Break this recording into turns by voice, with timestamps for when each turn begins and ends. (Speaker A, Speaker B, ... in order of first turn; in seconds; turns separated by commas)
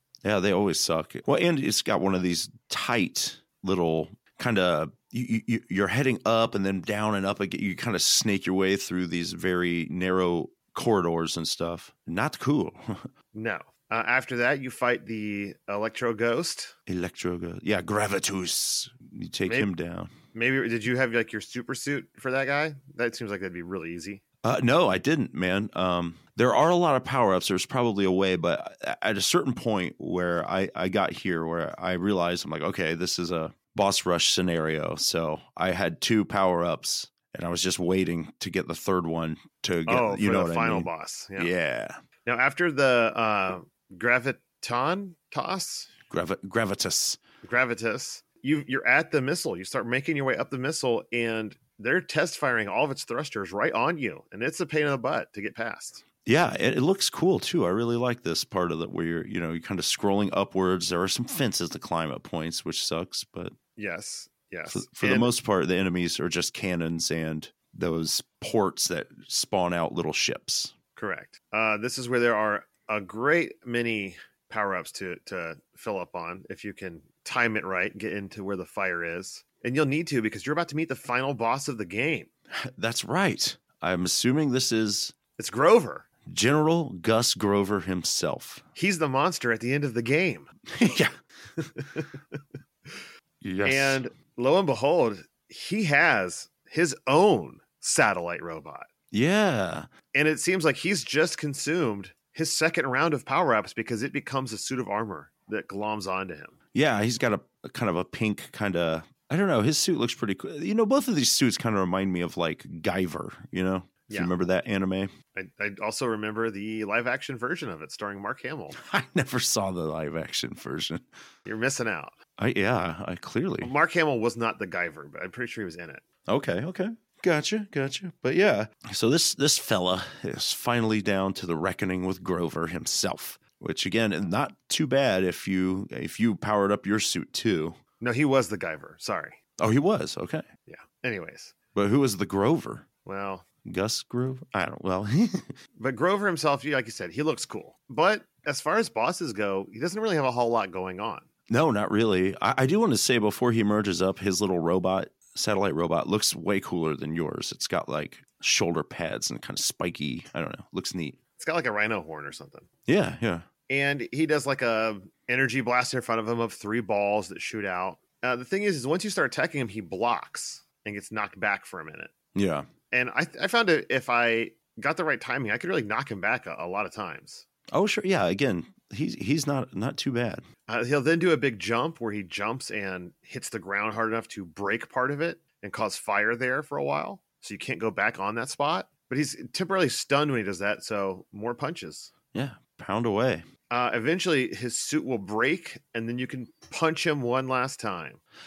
Speaker A: 0.2-13.1, Speaker B: 13.3-16.7, Speaker A: 16.9-20.1, Speaker B: 20.3-24.2, Speaker A: 24.4-42.0, Speaker B: 39.9-41.5, Speaker B: 42.2-45.9, Speaker A: 46.1-47.2, Speaker B: 47.4-56.0, Speaker A: 56.2-63.5, Speaker B: 63.8-65.3, Speaker A: 64.7-70.7, Speaker B: 71.0-82.3, Speaker A: 82.5-85.1, Speaker B: 85.4-86.0, Speaker A: 86.2-88.6, Speaker B: 88.7-90.5, Speaker A: 90.7-91.1, Speaker B: 91.6-93.0, Speaker A: 93.4-94.0, Speaker B: 93.6-98.9, Speaker A: 99.1-99.9, Speaker B: 100.1-106.5, Speaker A: 106.7-115.1, Speaker B: 114.1-114.3, Speaker B: 115.3-118.8, Speaker A: 118.8-121.0, Speaker B: 121.4-122.2, Speaker A: 122.4-123.7, Speaker B: 123.6-126.0, Speaker A: 126.3-137.8, Speaker B: 138.0-139.4, Speaker A: 139.6-140.4, Speaker B: 140.7-141.5, Speaker A: 141.7-142.8, Speaker B: 143.0-143.4, Speaker A: 143.6-145.5, Speaker B: 145.8-151.3, Speaker A: 151.5-161.2, Speaker B: 161.4-162.7, Speaker A: 162.9-163.4, Speaker B: 163.7-172.1, Speaker A: 172.3-172.7, Speaker B: 172.9-177.4, Speaker A: 177.7-180.4, Speaker B: 180.7-192.1, Speaker A: 192.3-193.4, Speaker B: 193.7-198.2